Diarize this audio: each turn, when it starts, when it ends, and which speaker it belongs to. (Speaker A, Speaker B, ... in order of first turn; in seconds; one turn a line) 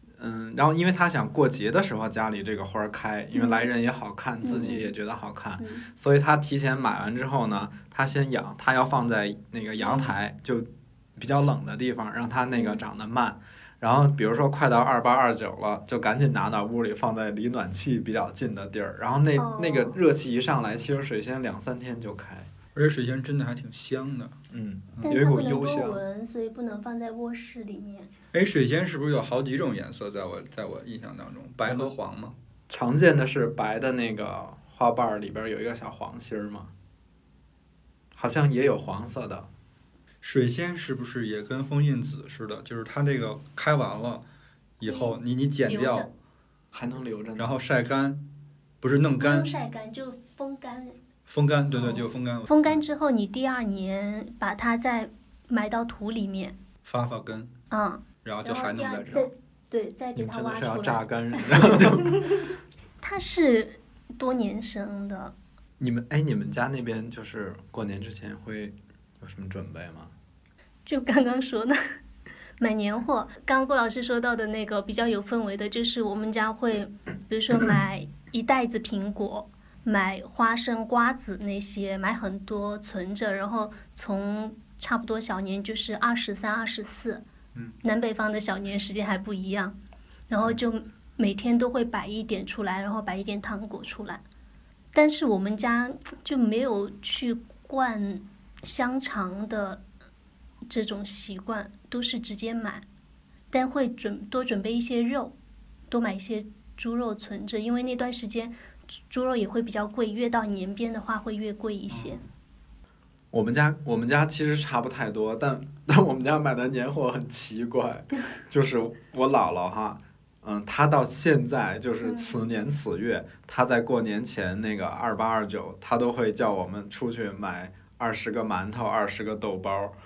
Speaker A: 0.2-22.5
Speaker B: 3.3-3.7
Speaker B: 4.4-4.9
Speaker B: 5.6-5.8
Speaker B: 9.8-10.1
Speaker B: 12.5-12.8
Speaker B: 19.4-20.0
Speaker C: 22.8-24.3
Speaker A: 24.5-26.0
Speaker B: 25.0-28.1
Speaker C: 28.3-32.4
Speaker A: 31.6-31.9
Speaker A: 32.7-36.7
Speaker A: 38.1-39.5
Speaker C: 40.2-44.3
Speaker C: 44.8-46.1
Speaker B: 44.8-46.1
Speaker A: 46.7-47.6
Speaker C: 47.4-48.2
Speaker C: 48.8-49.5
Speaker B: 49.2-51.0
Speaker C: 51.3-52.7
Speaker B: 51.7-56.5
Speaker C: 56.9-57.5
Speaker B: 57.7-62.5
Speaker C: 58.2-59.3
Speaker A: 60.2-62.3
Speaker B: 63.0-65.3
Speaker A: 65.8-70.1
Speaker B: 70.9-71.8
Speaker B: 72.6-87.2
Speaker B: 87.8-89.8
Speaker B: 90.3-94.2
Speaker B: 94.9-99.8
Speaker B: 100.7-102.8
Speaker B: 103.5-105.3
Speaker B: 105.9-112.2
Speaker C: 111.9-112.2
Speaker A: 113.3-129.9
Speaker B: 122.0-122.4